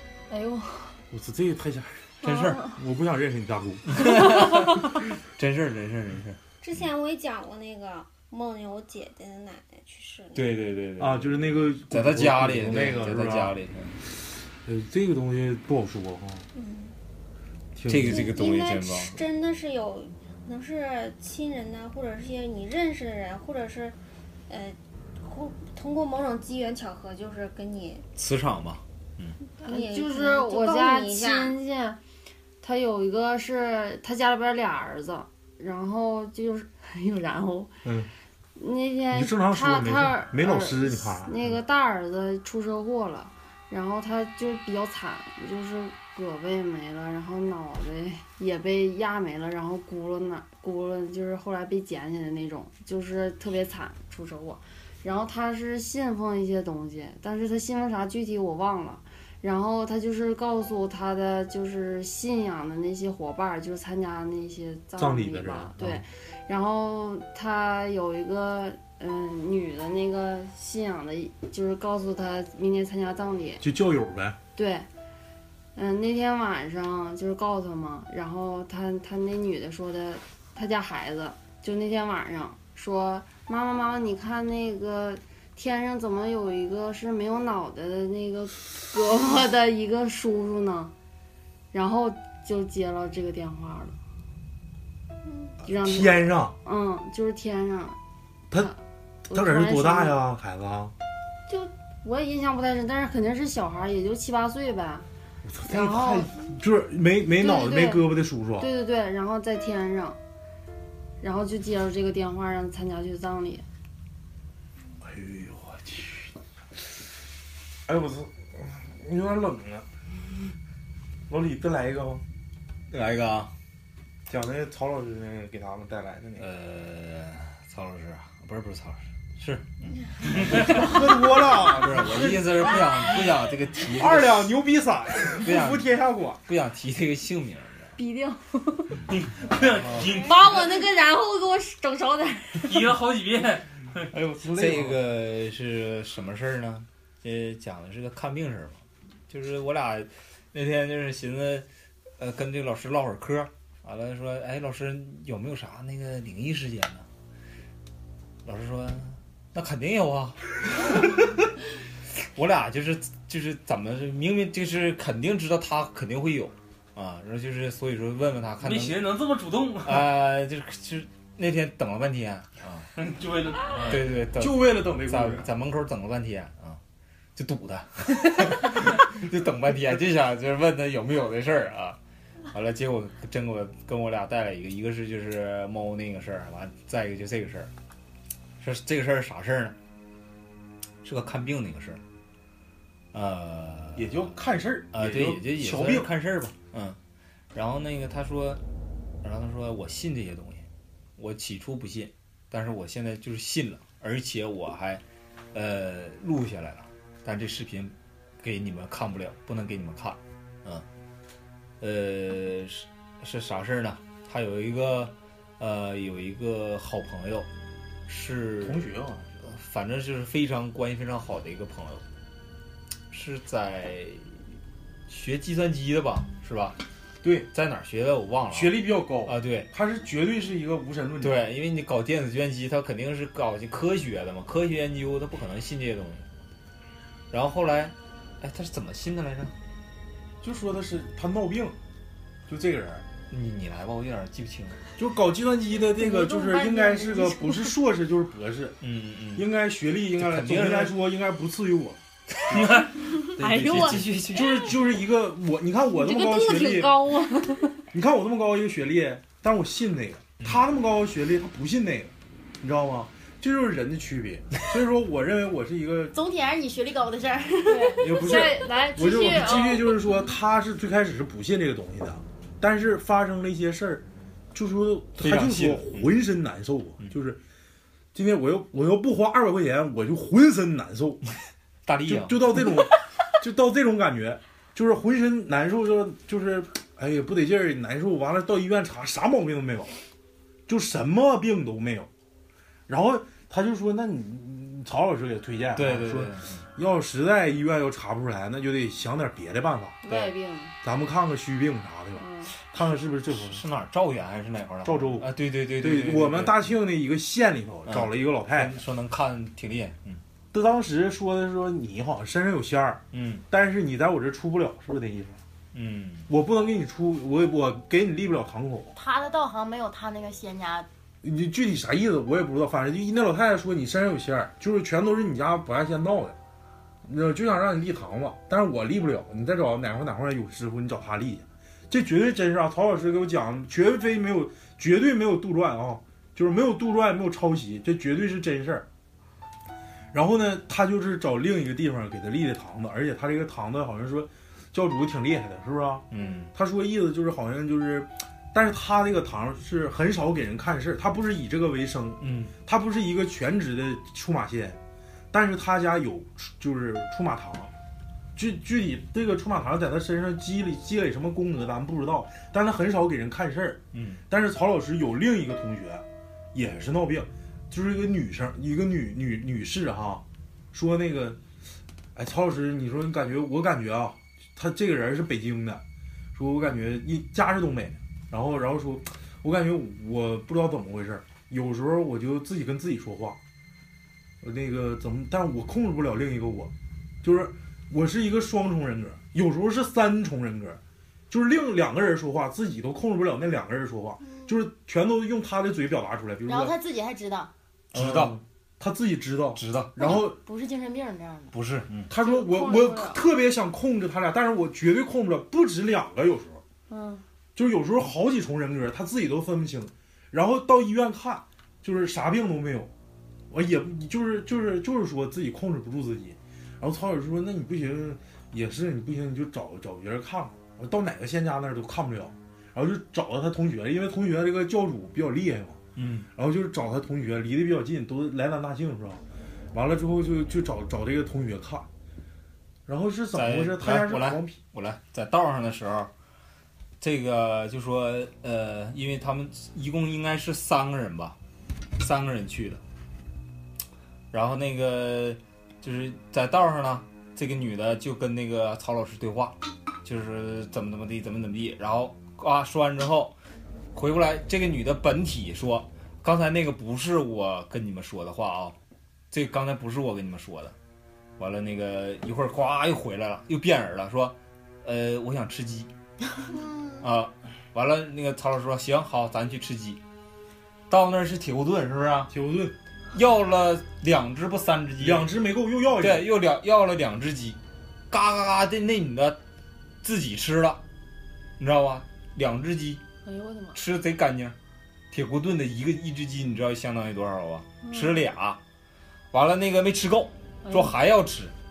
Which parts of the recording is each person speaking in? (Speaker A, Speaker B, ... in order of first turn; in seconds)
Speaker A: 0.3-1.0, 2.2-2.7, 4.2-4.6, 29.6-32.0, 32.6-37.7, 38.5-73.6, 74.5-74.9, 75.7-90.9, 91.7-93.9, 95.6-98.0, 99.3-100.1, 101.5-105.1, 105.7-106.3, 107.4-108.0, 108.6-110.2, 111.2-113.6, 138.0-139.0, 140.2-142.8, 245.8-247.7, 253.0-254.2, 255.9-257.8, 267.7-269.9, 300.0-300.7, 302.1-302.5, 402.2-403.2, 406.9-407.2, 483.2-483.8, 487.8-488.3, 490.6-490.9
Speaker B: 1.1-2.1, 2.7-4.0, 11.0-13.6, 14.2-16.5, 17.8-18.3, 37.8-38.1, 39.1-41.6, 65.0-66.0, 73.6-74.4, 95.7-96.5, 99.3-100.9, 105.4-108.7, 115.0-116.3, 117.9-119.9, 121.3-122.2, 124.3-126.5, 130.4-132.7, 133.9-136.4, 139.8-140.1, 144.1-145.0, 174.3-175.5, 193.9-196.1, 218.6-219.4, 227.2-227.5, 228.5-231.4, 240.4-241.8, 242.5-243.1, 245.0-248.8, 249.3-252.8, 254.3-257.1, 257.9-266.1, 268.0-277.4, 278.1-281.2, 282.1-289.9, 290.7-292.1, 292.9-300.0, 300.8-303.6, 304.8-308.8, 310.5-315.4, 316.3-318.9, 321.2-326.4, 327.0-338.9, 340.1-354.8, 355.3-357.7, 358.4-371.4, 372.1-375.8, 376.3-383.4, 384.4-386.7, 387.2-396.7, 397.9-400.4, 402.1-406.6, 407.6-412.9, 413.5-425.8, 426.4-429.2, 429.7-431.9, 432.9-434.6, 472.3-472.7, 475.0-476.3
Speaker C: 2.2-2.7, 3.9-6.4, 10.3-14.0, 17.9-19.2, 28.1-29.4, 122.9-123.5, 126.4-134.5, 135.4-135.8, 136.4-137.9, 144.5-151.7, 152.2-157.1, 158.4-161.3, 162.3-169.0, 169.8-172.9, 173.9-176.8, 177.3-182.0, 182.5-187.7, 188.6-189.8, 191.0-192.0, 193.1-194.2, 194.9-197.0, 197.5-198.6, 199.2-200.6, 201.2-205.0, 205.5-210.8, 211.8-217.5, 218.1-222.0, 223.1-224.4, 225.1-226.8, 227.5-229.7, 231.2-236.3, 237.3-239.5, 243.3-244.8, 248.8-249.5, 250.2-250.9, 252.4-254.7, 275.2-276.1, 281.9-282.8, 295.7-296.6, 300.1-300.3, 303.3-306.7, 307.9-310.2, 313.1-313.4, 315.7-316.3, 346.1-346.5, 352.2-352.5, 363.9-364.2, 397.9-398.4, 399.6-400.1, 401.5-402.1, 425.9-426.3, 433.3-436.1, 437.0-441.4, 442.0-442.8, 444.3-453.3, 453.9-458.8, 459.3-460.7, 461.4-465.9, 467.0-470.0, 470.9-472.3, 473.1-475.3, 476.0-477.6, 478.1-479.4, 480.0-480.8, 481.6-483.0, 483.7-484.5, 485.1-488.6, 489.3-491.5
Speaker D: 6.6-10.5, 16.5-16.9, 18.0-24.0, 24.5-28.1, 29.6-31.6, 466.5-467.1
Speaker E: 139.1-140.7, 142.6-144.1, 168.6-170.1, 172.9-174.0, 252.5-252.9
Speaker F: 266.1-268.3, 318.9-320.9, 396.4-397.5, 400.0-401.5